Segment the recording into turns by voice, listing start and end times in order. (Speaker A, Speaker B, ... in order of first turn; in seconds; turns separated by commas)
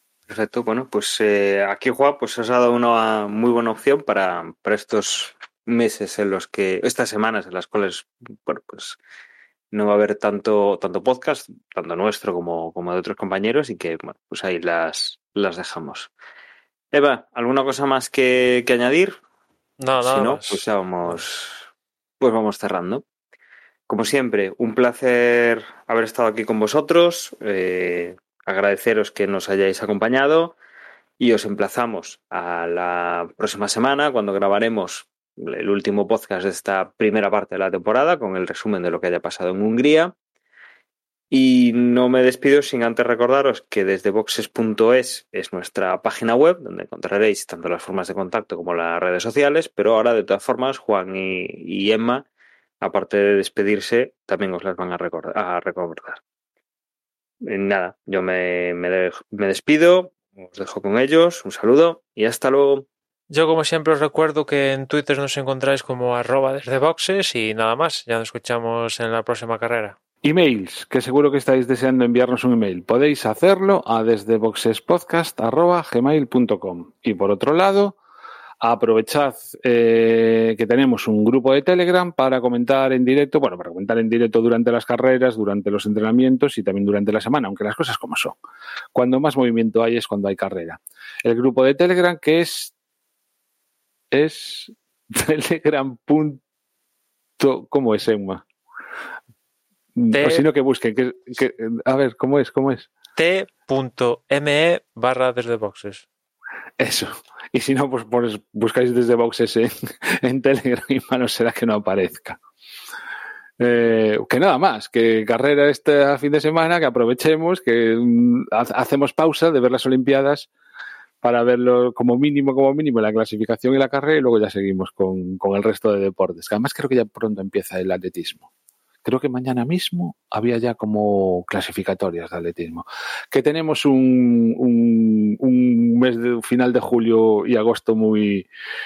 Speaker A: 0.3-9.0, Speaker A: 9.7-16.1, Speaker A: 16.9-19.2, Speaker B: 19.8-21.2, Speaker A: 20.0-21.7, Speaker A: 22.2-23.0, Speaker A: 23.9-30.6, Speaker A: 31.2-40.1, Speaker A: 41.3-52.3, Speaker A: 52.8-56.2, Speaker A: 57.4-62.9, Speaker B: 63.3-70.0, Speaker C: 70.2-78.0, Speaker C: 78.6-88.4, Speaker C: 88.9-92.7, Speaker C: 94.1-96.4, Speaker C: 97.4-98.5, Speaker C: 100.0-102.9, Speaker B: 100.1-100.5, Speaker B: 103.2-106.1, Speaker C: 106.8-112.4, Speaker C: 113.6-120.5, Speaker C: 121.2-128.5, Speaker C: 129.0-138.5